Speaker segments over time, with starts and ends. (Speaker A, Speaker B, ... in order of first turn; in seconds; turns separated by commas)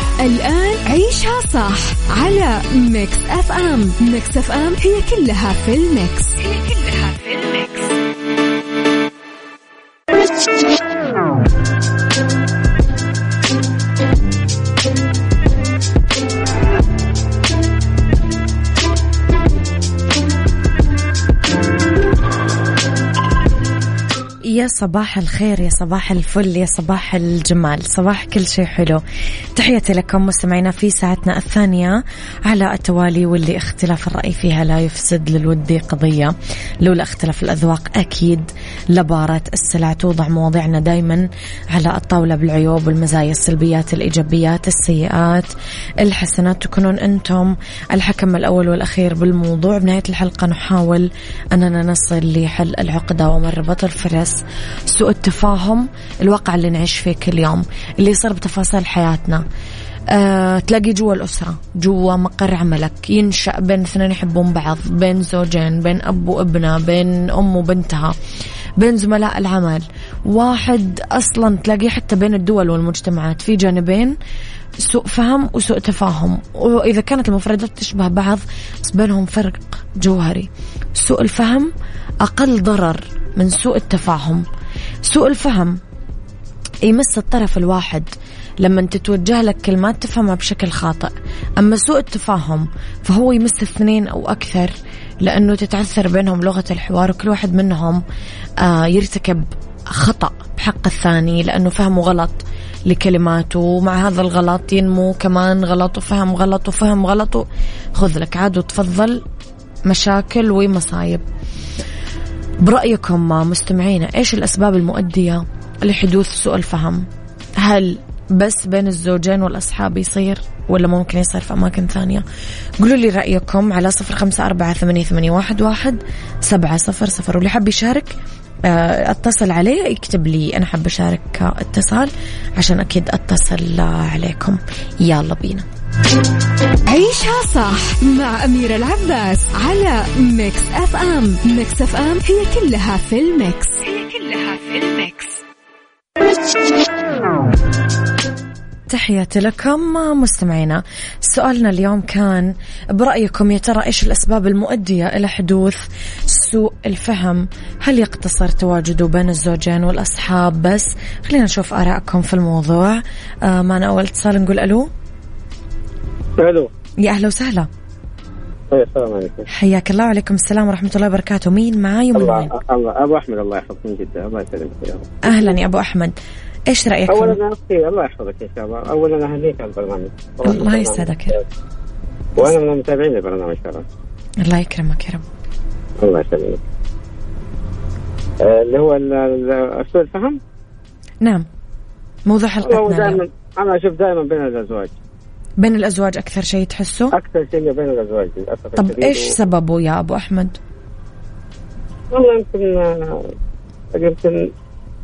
Speaker A: 0.2-7.9, Speaker B: 24.4-29.0, Speaker B: 29.6-59.4, Speaker B: 60.1-68.2, Speaker B: 68.8-74.2, Speaker B: 74.8-81.7, Speaker B: 82.2-84.5, Speaker B: 85.1-85.8, Speaker B: 86.8-98.0, Speaker B: 98.6-109.2, Speaker B: 109.9-111.2, Speaker B: 112.6-117.1, Speaker B: 117.6-122.2, Speaker B: 122.8-135.7, Speaker A: 136.9-145.4, Speaker B: 148.9-164.9, Speaker C: 166.4-166.7, Speaker B: 167.0-167.7, Speaker C: 168.7-169.5, Speaker B: 169.5-172.5, Speaker C: 172.2-175.6, Speaker B: 175.3-176.1, Speaker B: 176.7-177.4, Speaker C: 177.1-181.4, Speaker B: 180.4-181.4, Speaker C: 182.4-183.9, Speaker B: 184.4-185.2, Speaker C: 186.0-186.6, Speaker C: 188.4-190.4, Speaker B: 192.3-193.2, Speaker C: 192.7-194.9, Speaker B: 195.6-197.1, Speaker C: 197.1-199.3, Speaker B: 198.8-200.6, Speaker C: 202.1-203.1, Speaker C: 203.9-204.4